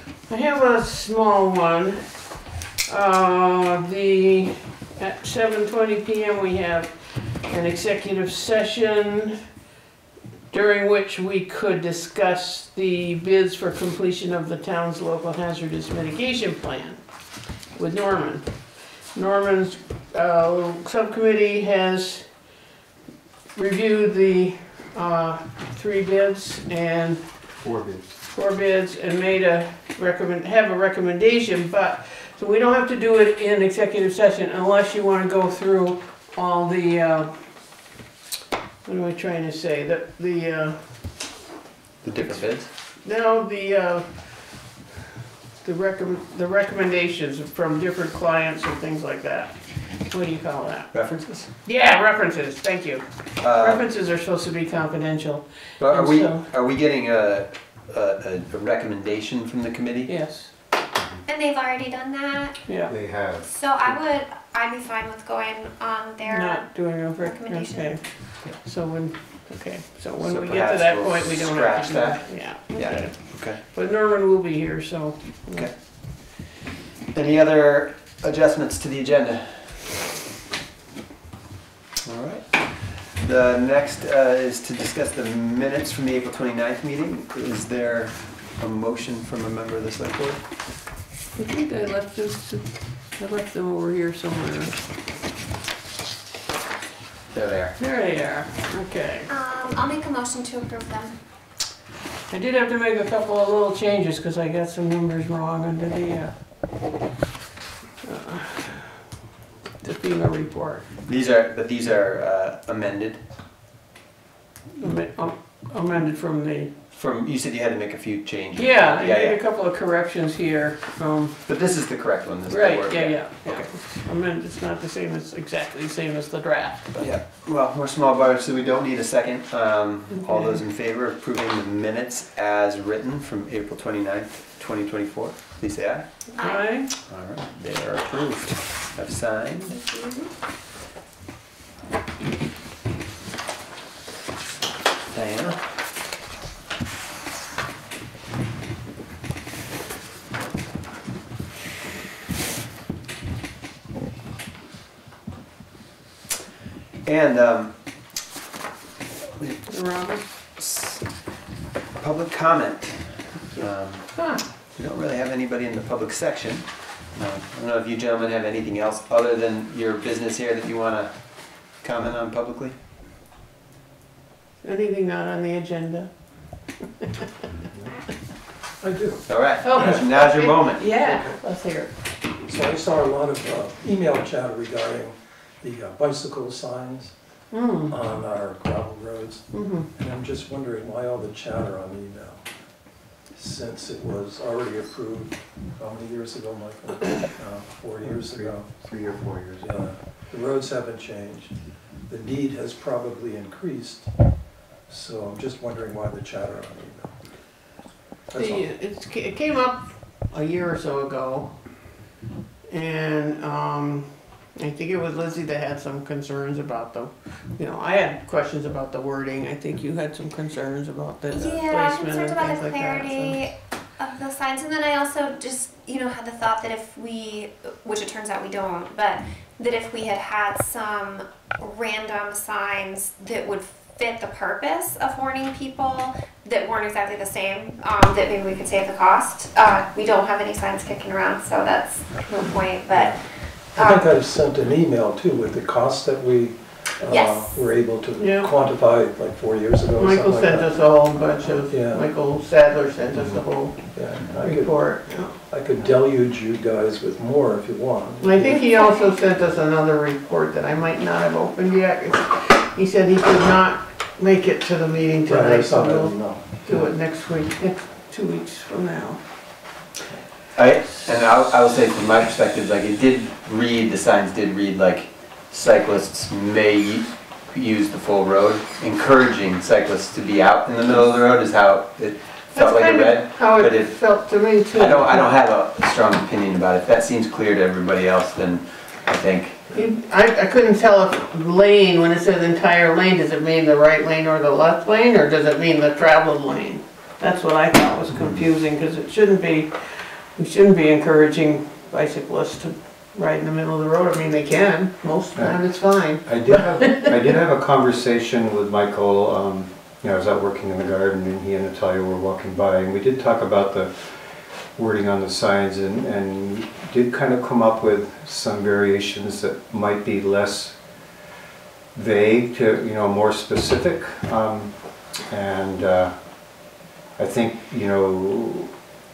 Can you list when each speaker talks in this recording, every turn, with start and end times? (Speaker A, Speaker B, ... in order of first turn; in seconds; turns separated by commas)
Speaker A: 0.3-2.0, Speaker A: 2.9-9.4, Speaker A: 10.5-17.0, Speaker A: 17.7-22.4, Speaker A: 23.6-27.5, Speaker B: 27.6-28.1, Speaker A: 28.3-37.4, Speaker A: 38.9-40.8, Speaker C: 42.0-42.7, Speaker A: 43.0-44.4, Speaker A: 45.6-50.9, Speaker C: 50.9-51.5, Speaker A: 51.6-56.5, Speaker C: 53.4-53.9, Speaker C: 55.8-60.2, Speaker A: 60.1-60.5, Speaker D: 61.3-62.6, Speaker A: 62.7-62.9, Speaker B: 62.9-64.0, Speaker D: 63.4-68.0, Speaker A: 66.2-75.7, Speaker C: 70.2-73.6, Speaker C: 75.5-76.5, Speaker C: 77.1-80.0, Speaker C: 82.0-90.5, Speaker A: 91.3-94.8, Speaker C: 97.3-97.8, Speaker A: 97.8-99.3, Speaker D: 99.3-101.1, Speaker A: 102.3-106.3, Speaker A: 108.0-109.0, Speaker A: 109.8-110.8, Speaker C: 111.0-113.2, Speaker A: 114.8-116.7, Speaker C: 116.9-119.4, Speaker A: 118.5-121.4, Speaker C: 121.5-123.7, Speaker A: 122.5-126.9, Speaker C: 127.0-136.3, Speaker A: 130.2-130.6, Speaker D: 136.3-136.8, Speaker A: 136.4-136.9, Speaker C: 137.1-139.8, Speaker D: 139.7-140.3, Speaker C: 145.1-145.6, Speaker C: 157.1-158.2, Speaker C: 159.4-159.7, Speaker A: 159.7-160.2, Speaker C: 160.6-161.2, Speaker C: 162.0-172.7, Speaker A: 164.2-164.4, Speaker A: 174.6-176.1, Speaker E: 178.8-179.2, Speaker C: 179.3-181.1, Speaker A: 179.6-181.9, Speaker E: 181.1-181.4, Speaker E: 182.4-192.5, Speaker A: 187.5-187.9, Speaker A: 189.5-189.9, Speaker E: 193.3-198.8, Speaker B: 198.0-199.9, Speaker E: 199.6-207.2, Speaker E: 208.3-208.7, Speaker A: 208.4-211.8, Speaker A: 212.7-223.5, Speaker D: 221.3-243.2, Speaker E: 243.7-250.9, Speaker D: 243.7-244.1, Speaker D: 247.1-247.6, Speaker A: 248.2-248.5, Speaker A: 250.0-255.3, Speaker E: 251.7-252.1, Speaker E: 253.9-258.6, Speaker A: 258.2-269.2, Speaker D: 258.7-259.1, Speaker E: 265.3-266.9, Speaker C: 270.6-289.6, Speaker A: 282.5-285.3, Speaker A: 289.7-307.1, Speaker B: 306.1-320.8, Speaker B: 321.9-328.7